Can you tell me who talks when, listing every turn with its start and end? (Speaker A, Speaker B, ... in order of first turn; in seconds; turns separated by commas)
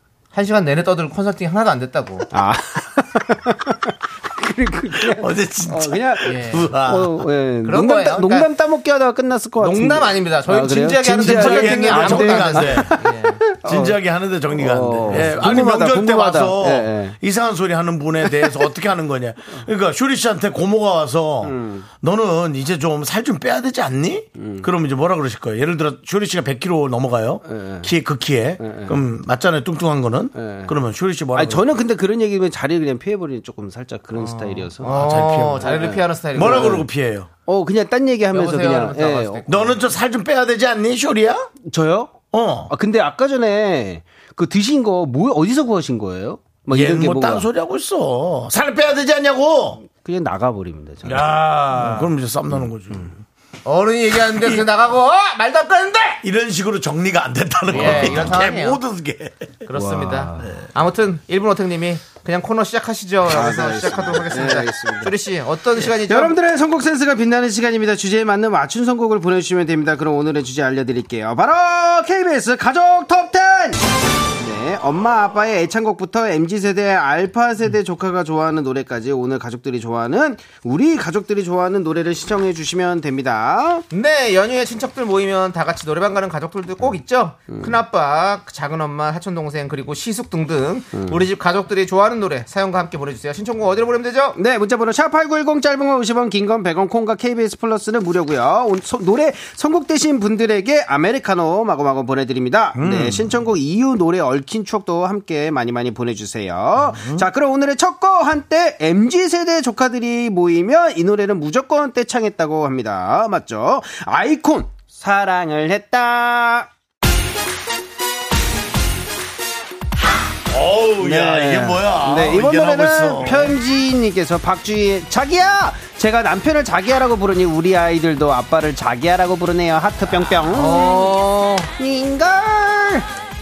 Speaker A: 0.3-2.3, Speaker B: 2.3-14.0, Speaker C: 5.1-7.3, Speaker A: 6.2-6.7, Speaker A: 7.6-8.5, Speaker A: 9.6-13.4, Speaker C: 11.1-13.0, Speaker C: 13.6-31.7, Speaker B: 14.5-17.2, Speaker B: 21.4-21.9, Speaker B: 24.4-24.7, Speaker B: 27.4-27.9, Speaker B: 28.6-29.0, Speaker B: 30.3-30.7, Speaker B: 31.4-35.0, Speaker A: 34.1-36.9, Speaker C: 34.8-37.3, Speaker B: 35.6-36.9, Speaker B: 37.5-39.4, Speaker A: 38.3-39.8, Speaker C: 39.5-41.5, Speaker B: 41.6-47.5, Speaker C: 42.3-42.7, Speaker C: 46.7-49.8, Speaker B: 49.8-52.0, Speaker C: 51.0-53.1, Speaker A: 53.6-56.2, Speaker C: 56.2-59.5, Speaker A: 57.7-58.8, Speaker B: 57.8-58.1, Speaker A: 59.7-66.3, Speaker B: 59.7-60.6, Speaker B: 63.3-65.1, Speaker B: 65.8-73.8, Speaker B: 74.3-83.8, Speaker A: 83.9-94.4, Speaker B: 87.5-87.8, Speaker B: 90.9-91.2, Speaker B: 94.3-116.7, Speaker C: 102.8-103.3, Speaker C: 106.9-107.2, Speaker C: 120.5-123.5, Speaker B: 121.0-131.1, Speaker A: 130.5-131.7, Speaker B: 131.8-133.1